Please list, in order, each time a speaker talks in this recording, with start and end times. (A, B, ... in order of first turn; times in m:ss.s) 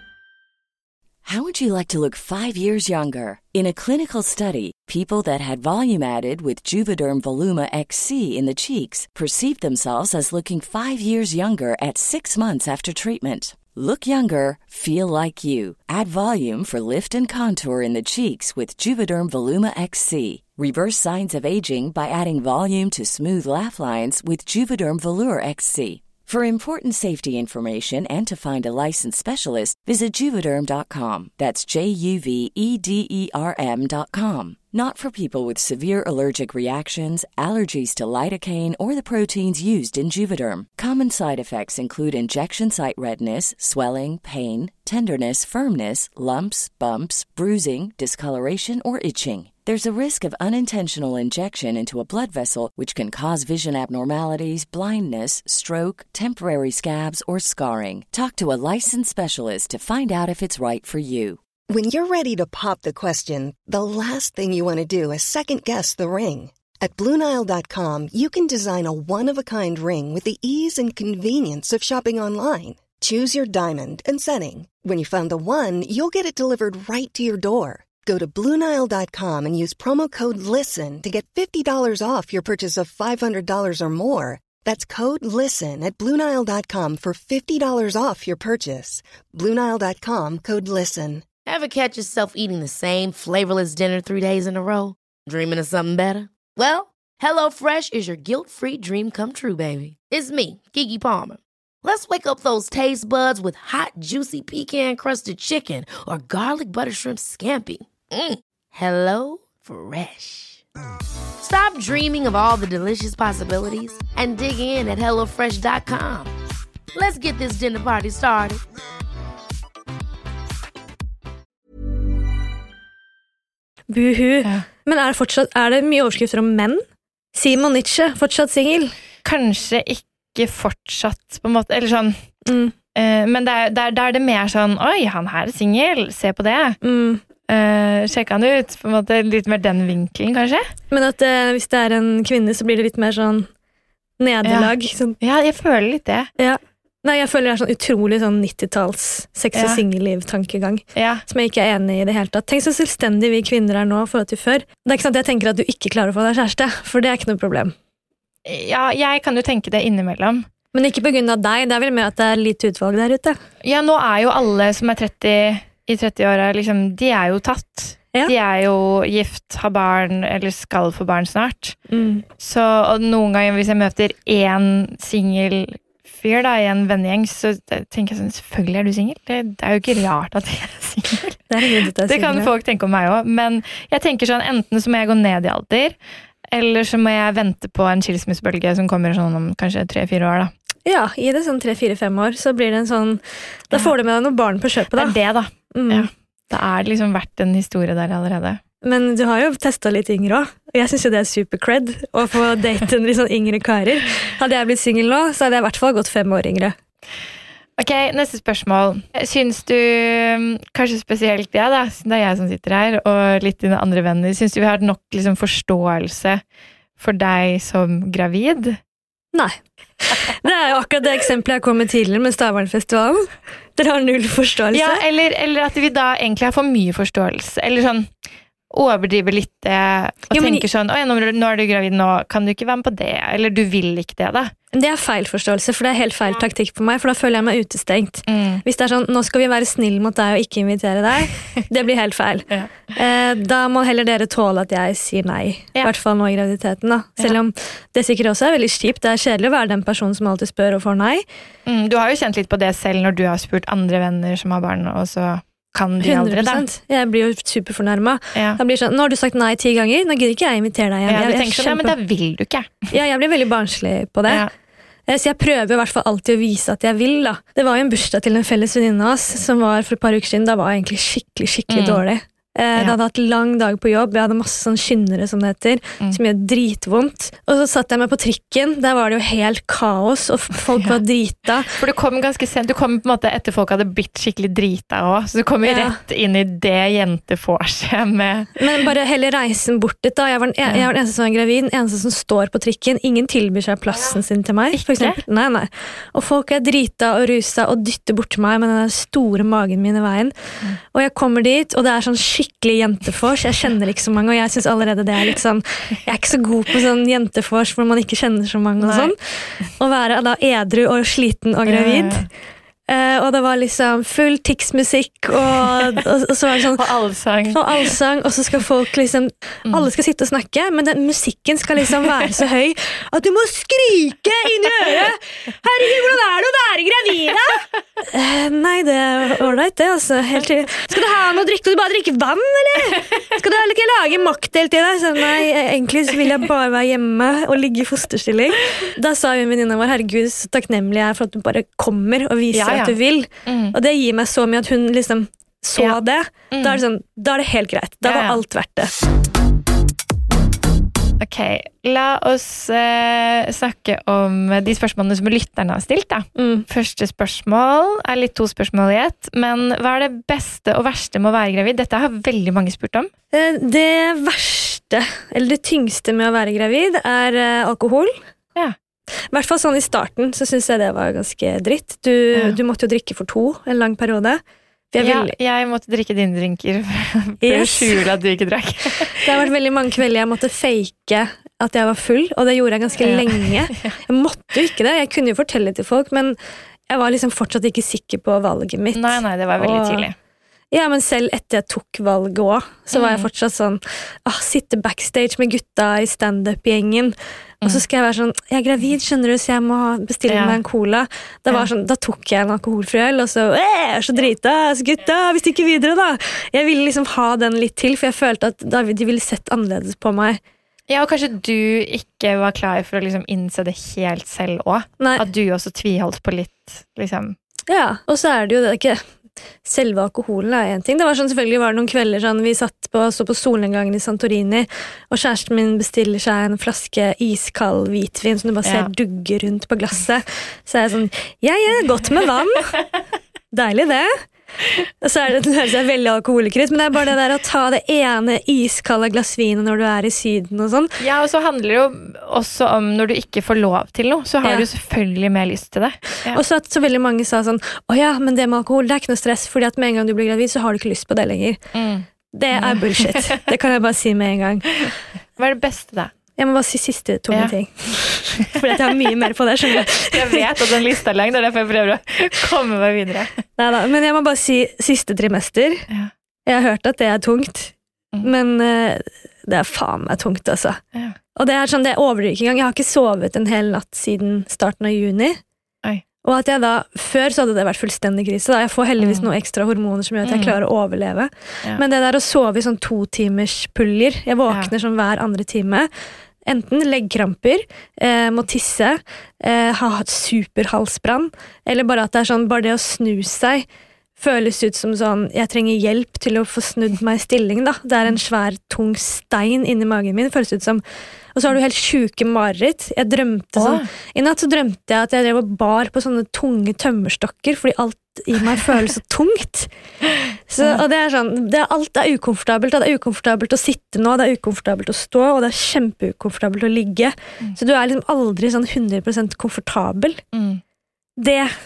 0:01.2-1:01.4 A
1:01.7-1:31.2 B
1:31.4-1:50.6 C
1:51.4-1:56.3 C
1:56.9-1:58.6 C
2:03.9-2:06.8 D
2:07.3-2:08.9 D
2:09.2-2:12.2 E
2:12.5-2:12.7 D
2:12.9-2:16.8 E
2:16.8-2:17.2 D
2:17.5-2:20.7 E
2:20.9-2:23.5 D
2:24.2-2:25.2 D
2:24.4-2:26.3 E
2:26.4-2:37.7 D
2:29.5-2:29.8 E
2:30.9-2:31.2 E
2:38.4-2:40.4 E
2:40.7-2:43.4 D
2:43.6-2:51.8 E
2:51.9-2:52.2 D
2:52.4-3:01.4 E
3:01.5-3:02.5 D
3:02.0-3:06.0 E
3:06.5-3:10.5 E
3:10.8-3:15.2 D
3:14.9-3:18.6 E
3:15.7-3:16.1 D
3:18.8-3:26.8 D
3:27.8-3:36.4 E
3:37.0-3:38.8 E
3:39.3-3:45.0 D
3:44.7-3:48.1 E
3:48.7-3:54.5 E
3:50.3-3:50.6 D
3:54.7-4:11.2 D
3:58.3-3:58.6 E
4:11.6-4:16.6 E
4:16.0-4:21.9 D
4:21.1-4:22.9 E
4:22.9-4:24.4 D
4:25.1-4:41.8 D
4:31.7-4:32.0 E
4:41.7-4:48.6 E
4:45.6-4:46.0 D
4:48.6-5:00.3 D
4:54.7-4:55.2 E
5:00.9-5:12.3 D
5:08.8-5:09.1 E
5:11.6-5:12.3 E
5:12.9-5:16.8 D
5:16.7-5:17.9 E
5:17.5-5:48.9 D
5:42.5-5:43.7 E
5:46.5-5:46.8 E
5:48.0-5:48.4 E
5:51.2-6:03.1 E
5:56.4-5:56.6 D
6:03.3-6:08.2 D
6:09.3-6:14.4 D
6:14.9-6:15.3 D
6:15.0-6:19.3 E
6:17.4-6:18.0 D
6:19.2-6:26.4 D
6:23.0-6:23.9 E
6:26.9-6:30.0 D
6:28.9-6:30.1 E
6:30.7-6:50.4 D
6:32.9-6:33.3 E
6:40.3-6:40.6 E
6:50.9-6:57.3 E
6:57.7-6:59.0 D
6:59.6-7:12.8 D
7:08.6-7:08.9 E
7:13.5-7:14.2 D
7:15.0-7:20.9 D
7:21.0-7:26.4 E
7:26.3-7:31.6 D
7:31.7-7:33.4 E
7:32.3-7:34.8 D
7:35.4-7:36.1 E
7:36.4-7:40.4 D
7:40.0-7:43.4 E
7:43.6-7:45.8 D
7:46.5-7:50.8 D
7:51.3-7:55.4 D
7:56.2-8:05.9 D
7:59.0-7:59.3 E
8:00.2-8:00.6 E
8:06.5-8:13.6 D
8:14.2-8:20.8 D
8:21.3-8:29.7 D
8:23.6-8:23.8 E
8:30.5-8:40.2 D
8:40.3-8:40.6 E
8:41.2-8:41.5 D